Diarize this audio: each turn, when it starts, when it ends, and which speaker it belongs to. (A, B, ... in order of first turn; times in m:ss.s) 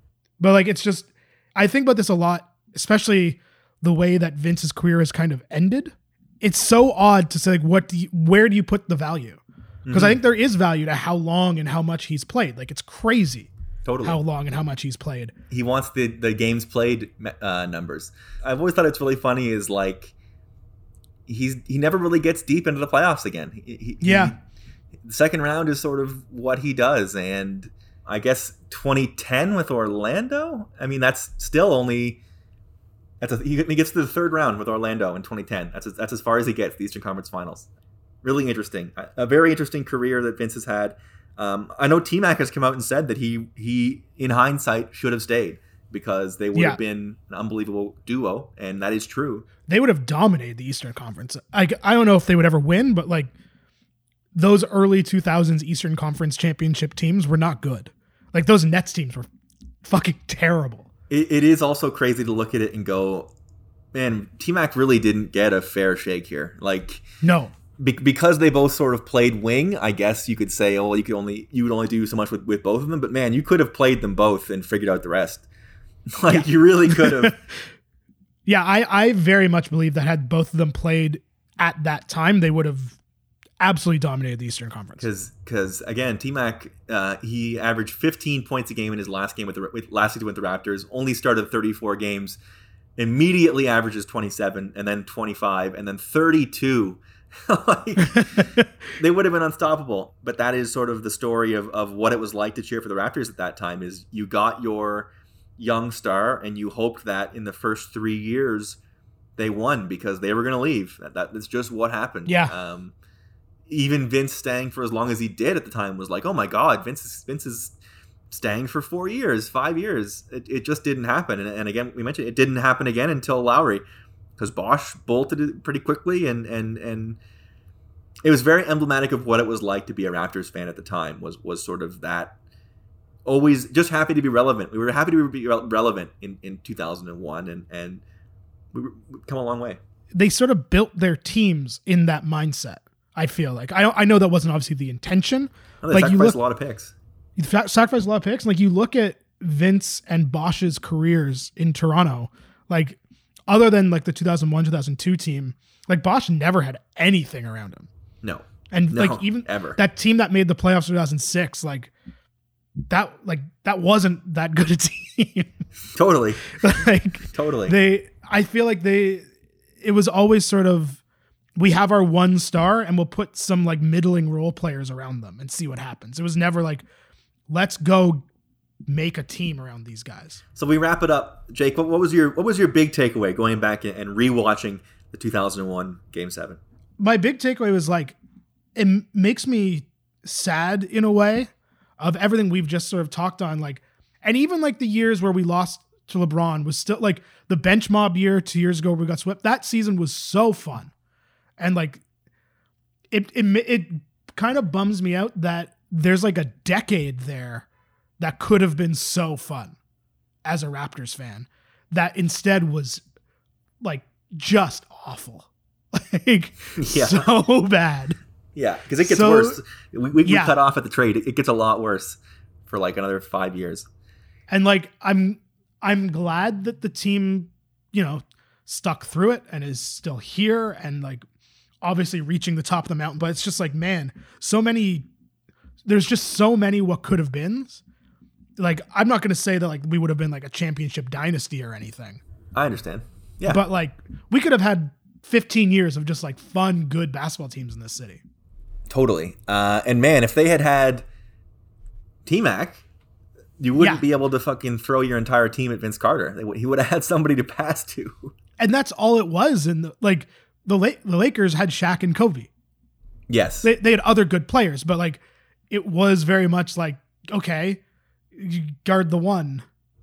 0:00.4-0:13.5 A
0:09.8-0:10.2 B
0:13.8-0:14.2 B
0:14.0-0:15.3 A
0:15.5-0:20.1 B
0:21.3-0:24.4 B
0:24.0-0:24.3 A
0:25.0-0:32.2 B
0:33.2-0:37.7 B
0:38.2-0:49.5 B
0:49.7-0:53.3 A
0:54.3-0:59.3 A
0:59.8-1:00.9 A
1:01.1-1:03.3 B
1:03.9-1:07.0 B
1:07.2-1:07.5 A
1:07.8-1:15.5 B
1:16.2-1:17.4 B
1:16.3-1:17.3 A
1:18.5-1:23.0 A
1:23.6-1:25.1 A
1:25.0-1:32.4 B
1:33.0-1:38.4 B
1:38.1-1:38.6 A
1:39.0-1:48.8 B
1:49.4-1:52.9 B
1:52.3-1:52.5 A
1:53.7-1:57.8 B
1:58.3-2:03.8 B
2:04.4-2:07.2 B
2:08.2-2:12.4 B
2:13.2-2:18.0 B
2:18.7-2:19.8 B
2:20.1-2:26.4 A
2:25.8-2:26.9 B
2:27.4-2:37.9 A
2:38.2-2:39.8 B
2:38.7-2:41.9 A
2:42.9-2:45.5 A
2:46.0-2:46.6 B
2:46.6-2:49.3 A
2:47.3-2:47.8 B
2:49.8-2:51.0 A
2:51.6-2:56.9 A
2:57.5-2:58.2 A
2:58.9-3:00.4 A
3:00.6-3:06.6 B
3:07.0-3:08.2 A
3:08.8-3:20.9 A
3:21.6-3:22.0 A
3:23.1-3:27.7 A
3:28.2-3:29.8 A
3:30.4-3:33.0 A
3:33.8-3:38.2 A
3:36.8-3:37.3 B
3:38.6-3:43.9 B
3:39.0-3:39.6 A
3:40.2-3:40.6 A
3:44.5-3:51.2 A
3:51.8-3:55.1 A
3:55.9-3:57.8 A
3:58.6-4:02.2 A
4:02.5-4:03.6 B
4:03.5-4:08.2 A
4:08.9-4:11.0 B
4:12.3-4:12.8 B
4:13.6-4:18.3 B
4:13.8-4:14.0 A
4:18.6-4:22.5 A
4:23.3-4:23.7 B
4:23.6-4:27.8 A
4:28.4-4:29.6 A